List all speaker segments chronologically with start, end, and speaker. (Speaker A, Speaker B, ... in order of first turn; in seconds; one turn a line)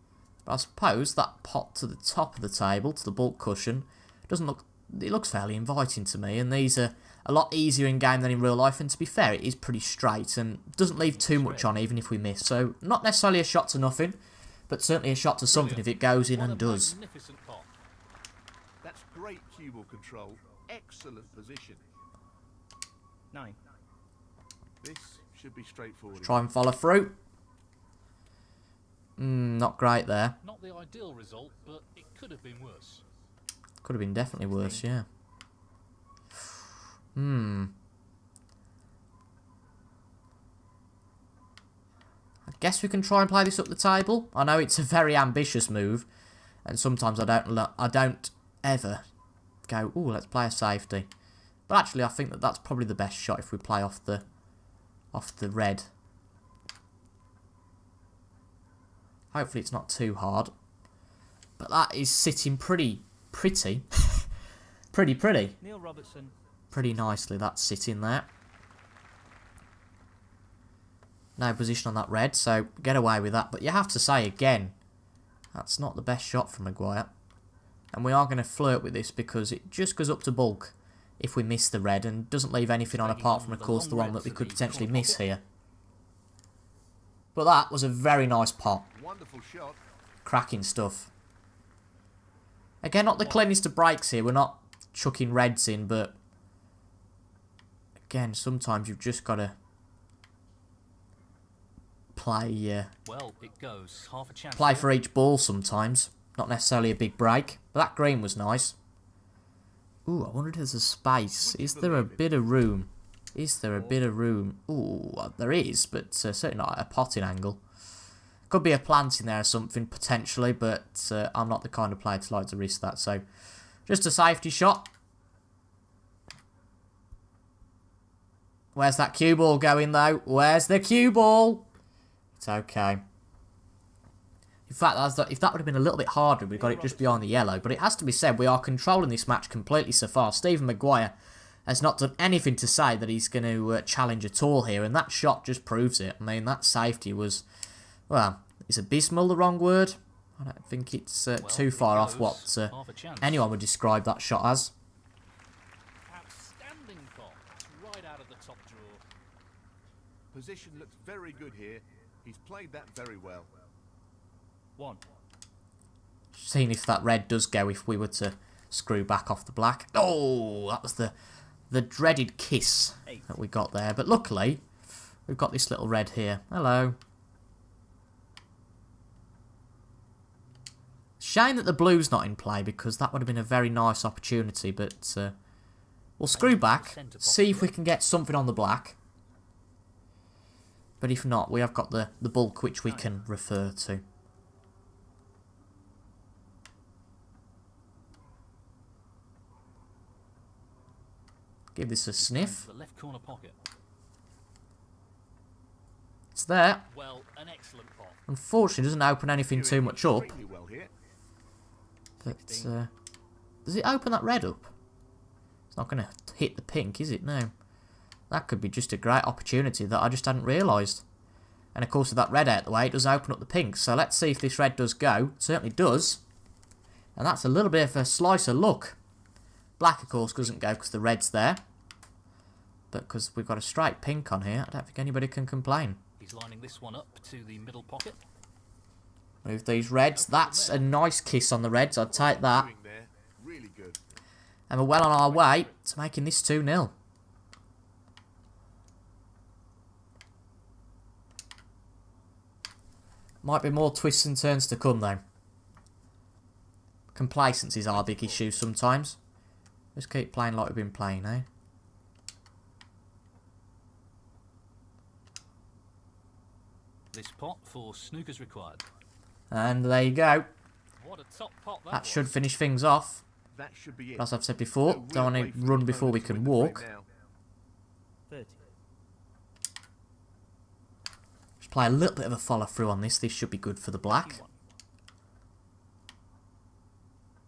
Speaker A: 0.5-16.9
Speaker B: 10.9-11.7
Speaker B: 15.5-17.7
Speaker C: 18.8-21.8
Speaker D: 23.3-23.6
Speaker C: 24.8-26.5
Speaker A: 26.2-27.2
Speaker A: 29.2-30.4
Speaker B: 30.4-33.0
Speaker A: 33.8-35.0
Speaker D: 34.3-34.9
Speaker A: 37.1-37.7
Speaker A: 42.5-46.1
Speaker A: 46.6-49.0
Speaker A: 49.7-51.1
Speaker A: 51.7-54.2
Speaker A: 55.1-55.9
Speaker A: 59.3-60.5
Speaker A: 61.6-64.3
Speaker A: 64.9-65.6
Speaker D: 65.6-66.3
Speaker A: 66.7-68.3
Speaker A: 71.4-74.7
Speaker A: 75.5-77.1
Speaker A: 77.9-85.4
Speaker B: 82.9-85.2
Speaker A: 87.3-88.9
Speaker C: 88.9-89.8
Speaker A: 90.2-91.1
Speaker A: 92.8-96.2
Speaker D: 93.2-93.5
Speaker A: 98.1-99.5
Speaker A: 102.2-102.9
Speaker B: 103.0-104.9
Speaker A: 104.5-108.8
Speaker A: 110.0-117.6
Speaker C: 111.4-112.4
Speaker A: 118.5-123.2
Speaker A: 123.9-124.9
Speaker A: 128.7-131.7
Speaker A: 132.4-133.0
Speaker A: 134.7-141.1
Speaker D: 136.5-137.7
Speaker A: 141.7-147.4
Speaker A: 148.1-154.7
Speaker B: 151.4-153.4
Speaker B: 156.1-159.0
Speaker C: 160.3-163.5
Speaker D: 164.8-165.0
Speaker A: 166.3-171.1
Speaker A: 171.7-174.6
Speaker D: 173.1-173.4
Speaker A: 175.3-177.0
Speaker A: 181.2-185.3
Speaker A: 186.2-188.9
Speaker B: 186.3-187.8
Speaker A: 191.0-194.0
Speaker A: 201.7-202.6
Speaker B: 202.2-203.6
Speaker A: 206.3-206.9
Speaker B: 206.9-208.2
Speaker A: 208.3-210.3
Speaker C: 209.5-210.9
Speaker D: 212.2-212.7
Speaker A: 212.2-212.9
Speaker A: 213.7-214.7
Speaker A: 215.7-217.5
Speaker A: 218.3-221.0
Speaker A: 221.7-226.2
Speaker A: 227.2-229.0
Speaker A: 229.8-231.6
Speaker B: 230.1-230.7
Speaker A: 232.9-236.0
Speaker B: 236.2-238.2
Speaker A: 239.4-242.7
Speaker B: 240.1-240.9
Speaker C: 242.0-244.1
Speaker A: 244.7-246.9
Speaker B: 245.0-245.8
Speaker A: 253.4-255.2
Speaker A: 257.1-259.2
Speaker C: 257.9-258.6
Speaker A: 259.9-261.4
Speaker B: 267.1-268.8
Speaker A: 269.5-270.5
Speaker B: 271.0-272.4
Speaker A: 271.9-273.2
Speaker C: 273.5-277.1
Speaker A: 274.2-276.8
Speaker D: 278.3-278.6
Speaker A: 281.6-284.4
Speaker D: 284.0-284.6